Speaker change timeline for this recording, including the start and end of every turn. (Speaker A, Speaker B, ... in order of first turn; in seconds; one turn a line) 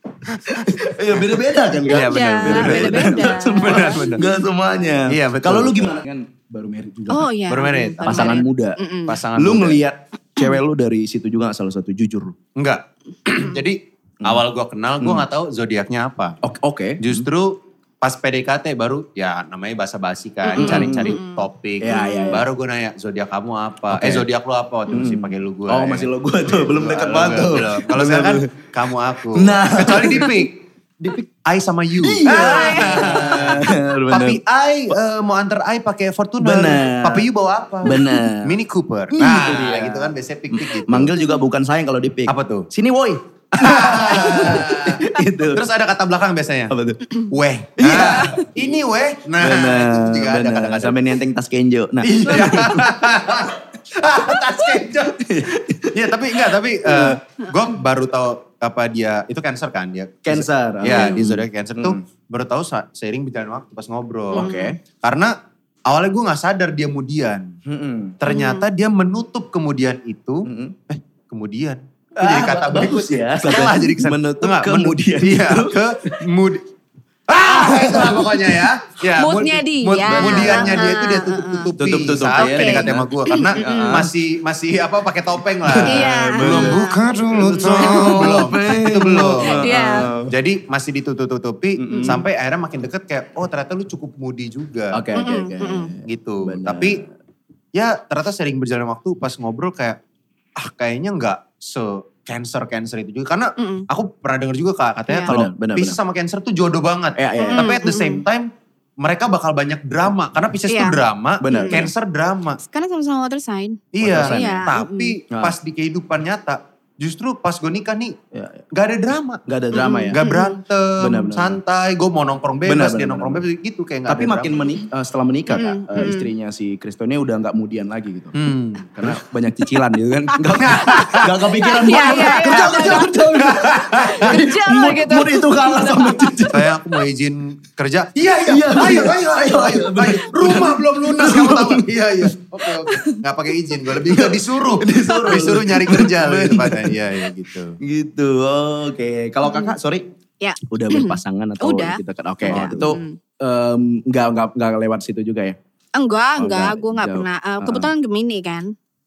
Speaker A: 0.4-7.3
Speaker B: 1.8-4.2
Speaker C: 1.9-4.2
Speaker B: 5.1-6.0
Speaker C: 7.1-9.2
Speaker B: 7.5-8.5
Speaker A: 8.0-8.8
Speaker B: 9.1-9.8
Speaker A: 9.4-12.3
Speaker B: 12.6-16.4
Speaker A: 16.4-17.3
Speaker B: 17.0-41.2
Speaker C: 20.5-22.4
Speaker A: 20.6-21.1
Speaker A: 21.8-22.4
Speaker A: 23.9-24.2
Speaker A: 24.9-28.6
Speaker A: 29.4-30.4
Speaker A: 32.0-35.0
Speaker C: 32.4-33.2
Speaker A: 36.4-37.2
Speaker A: 37.8-38.6
Speaker A: 39.1-45.6
Speaker B: 42.3-42.7
Speaker B: 43.5-46.7
Speaker A: 46.7-47.0
Speaker B: 47.3-51.0
Speaker A: 47.8-48.4
Speaker A: 49.4-52.9
Speaker B: 52.0-55.2
Speaker A: 55.2-56.1
Speaker B: 55.9-65.3
Speaker A: 56.8-57.2
Speaker A: 60.2-62.0
Speaker A: 64.3-64.8
Speaker C: 64.3-64.7
Speaker B: 65.9-67.5
Speaker A: 67.7-68.2
Speaker B: 68.2-76.7
Speaker C: 68.3-68.7
Speaker A: 70.5-70.7
Speaker A: 72.2-76.2
Speaker B: 77.3-95.0
Speaker A: 77.4-78.4
Speaker C: 79.2-81.7
Speaker A: 80.0-80.9
Speaker A: 81.8-84.1
Speaker C: 82.4-84.0
Speaker A: 85.6-90.3
Speaker C: 85.8-88.5
Speaker C: 89.4-90.1
Speaker A: 91.8-92.2
Speaker A: 94.9-97.1
Speaker C: 95.2-95.9
Speaker B: 96.0-97.0
Speaker B: 97.7-100.0
Speaker B: 100.6-108.5
Speaker C: 103.6-103.9
Speaker A: 105.3-106.0
Speaker A: 107.2-107.7
Speaker C: 107.4-108.2
Speaker B: 109.0-112.6
Speaker C: 110.7-111.0
Speaker A: 111.4-111.9
Speaker C: 111.5-111.8
Speaker C: 112.6-115.2
Speaker B: 113.9-118.2
Speaker A: 114.0-114.7
Speaker A: 118.3-118.6
Speaker B: 118.7-119.4
Speaker A: 119.5-120.2
Speaker C: 119.7-120.6
Speaker B: 120.1-124.6
Speaker A: 121.0-121.6
Speaker A: 122.7-123.4
Speaker A: 124.1-128.3
Speaker C: 125.5-126.3
Speaker B: 128.3-129.2
Speaker A: 128.9-136.7
Speaker B: 130.6-131.3
Speaker C: 131.6-136.4
Speaker B: 132.1-134.3
Speaker B: 136.5-147.8
Speaker A: 138.4-142.3
Speaker C: 142.9-143.2
Speaker A: 144.1-147.0
Speaker A: 147.8-150.0
Speaker C: 149.4-149.7
Speaker C: 150.4-153.2
Speaker A: 150.7-155.6
Speaker B: 152.4-153.0
Speaker C: 155.9-158.7
Speaker A: 156.4-157.9